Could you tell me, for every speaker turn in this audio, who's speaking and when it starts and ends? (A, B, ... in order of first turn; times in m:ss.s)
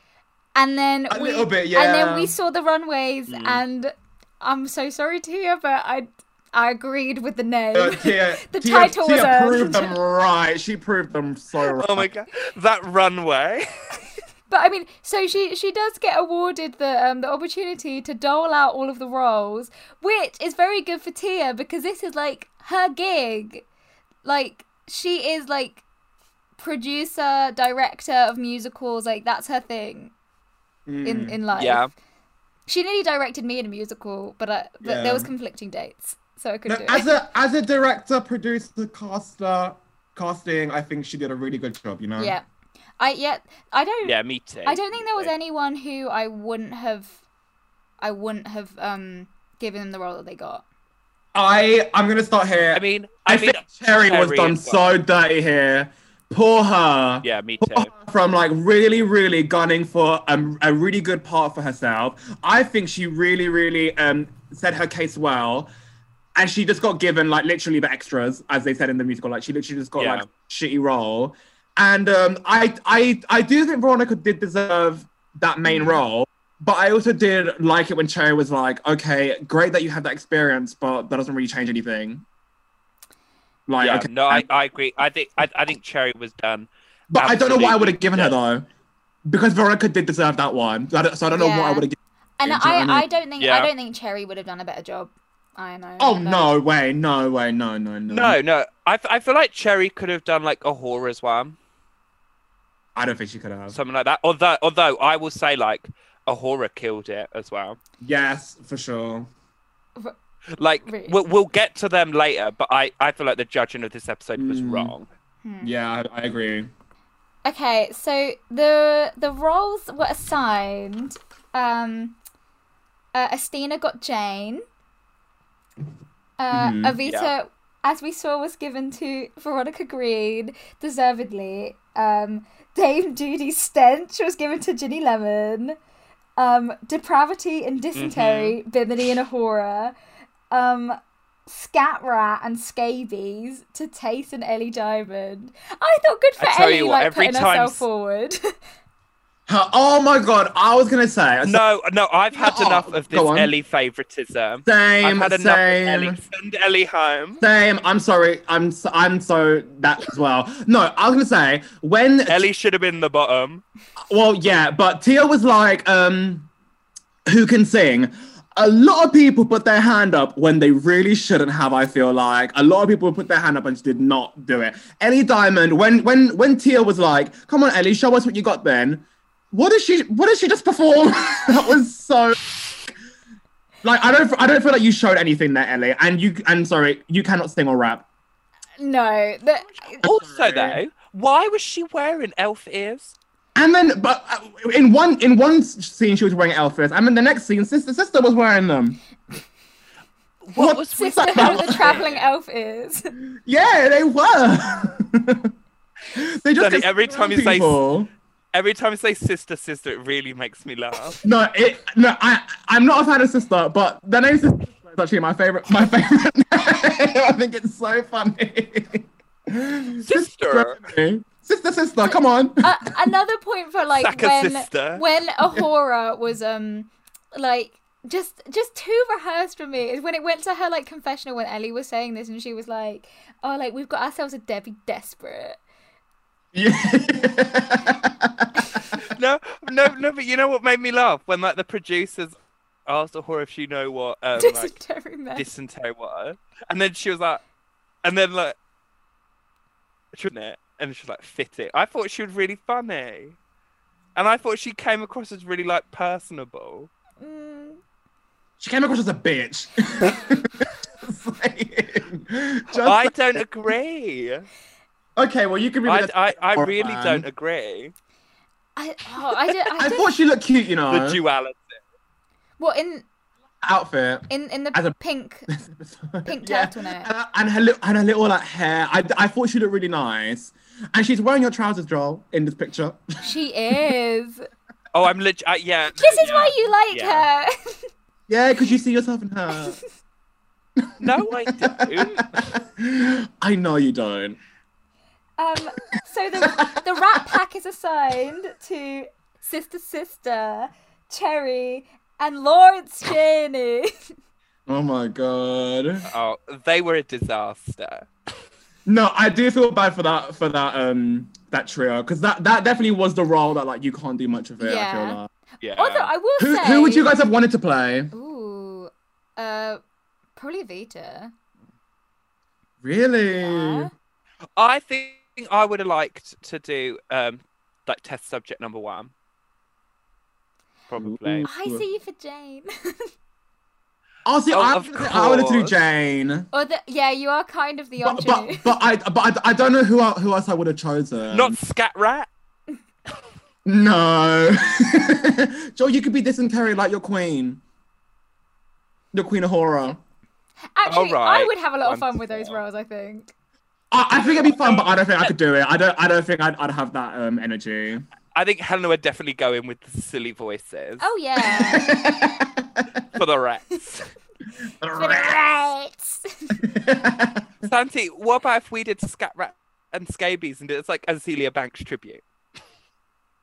0:00.6-0:10.0 A
0:01.1-0:02.3 B
0:03.3-0:03.6 C
0:07.7-0:12.1 B
0:11.7-0:13.7 C
0:14.5-0:23.6 A
0:24.2-0:25.8 A
0:26.6-0:30.1 A
0:30.9-0:31.4 B
0:31.0-0:31.9 A
0:31.5-0:31.9 C
0:32.7-0:37.2 A
0:34.8-0:35.3 B
0:36.7-0:42.4 B
0:42.2-0:42.4 A
0:43.0-0:47.2 A
0:44.0-0:45.3 C
0:48.0-0:50.6 A
0:51.3-1:05.7 B
0:52.8-0:54.9 C
0:57.2-0:57.9 C
1:06.4-1:22.2 B
1:10.0-1:10.3 C
1:15.7-1:16.0 A
1:23.7-1:24.4 B
1:23.8-1:28.4 C
1:27.1-1:28.7 B
1:29.3-1:33.1 B
1:31.3-1:31.9 A
1:32.4-1:36.6 A
1:33.4-1:33.7 C
1:36.0-1:38.4 B
1:38.1-1:41.6 C
1:43.0-1:43.8 B
1:43.7-1:47.8 C
1:48.0-1:49.3 B
1:50.6-1:55.1 C
1:50.9-1:51.2 A
1:54.4-1:54.9 B
1:55.4-1:55.7 A
1:55.6-1:56.7 B
1:57.4-2:02.2 A
2:03.1-2:04.6 A
2:06.4-2:15.8 A
2:06.5-2:07.0 B
2:07.0-2:07.3 C
2:16.4-2:20.0 A
2:18.0-2:18.6 C
2:20.5-2:28.6 A
2:26.4-2:27.8 C
2:29.5-2:31.6 B
2:31.4-2:37.4 C
2:32.3-2:33.5 B
2:34.6-2:36.2 B
2:37.4-2:42.5 B
2:42.3-2:43.6 C
2:44.1-2:46.5 B
2:47.3-3:02.4 B
3:03.8-3:08.0 B
3:08.8-3:10.0 A
3:09.8-3:10.8 B
3:10.0-3:13.1 C
3:13.6-3:19.0 B
3:20.4-3:22.3 C
3:20.5-3:22.0 B
3:20.9-3:23.1 A
3:23.5-3:25.5 B
3:26.1-3:28.1 B
3:26.6-3:27.8 C
3:28.5-3:31.2 C
3:31.2-3:42.7 B
3:40.0-3:40.8 C
3:42.6-3:55.6 A
3:44.0-3:45.0 C
3:56.5-3:59.0 B
3:59.0-4:02.4 C
4:02.9-4:04.8 C
4:04.4-4:05.5 A
4:05.4-4:07.4 C
4:08.0-4:08.6 C
4:10.1-4:13.4 C
4:14.2-4:16.9 C
4:17.2-4:17.8 A
4:18.6-4:23.4 B
4:22.7-4:24.5 C
4:25.2-4:27.3 B
4:25.8-4:27.9 C
4:28.8-4:30.1 A
4:29.8-4:31.2 B
4:30.9-4:31.8 C
4:32.6-4:33.0 A
4:33.6-4:35.0 B
4:34.3-4:35.5 A
4:35.5-4:43.0 B
4:36.2-4:37.1 A
4:43.2-4:44.5 A
4:44.9-4:47.3 C
4:46.0-4:47.9 A
4:48.3-4:49.8 B
4:49.5-4:49.8 A
4:51.0-4:52.3 C
4:51.5-4:54.4 B
4:55.4-5:03.9 A
4:56.4-4:56.8 B
5:04.7-5:06.1 B
5:06.0-5:08.1 C
5:08.9-5:15.3 B
5:14.6-5:15.2 A
5:15.6-5:16.1 C
5:15.8-5:17.1 A
5:16.4-5:18.1 B
5:18.1-5:19.8 A
5:20.4-5:21.3 A
5:22.8-5:23.9 B
5:23.4-5:23.9 A
5:24.6-5:29.1 C
5:30.9-5:31.5 C
5:31.0-5:31.8 B
5:31.4-5:33.1 A
5:34.2-5:36.5 B
5:34.5-5:35.7 C
5:36.5-5:38.7 A
5:38.0-5:41.6 B
5:41.3-5:42.3 C
5:43.7-5:47.6 B
5:49.1-5:50.0 B
5:50.8-5:53.3 A
5:50.9-5:52.6 C
5:53.9-5:58.1 B
5:54.6-5:54.9 C
5:58.4-6:01.0 C
6:01.0-6:02.0 A
6:01.4-6:02.9 B
6:03.1-6:04.1 C
6:04.8-6:05.4 B
6:05.0-6:06.6 A
6:06.6-6:07.5 B
6:07.6-6:12.2 C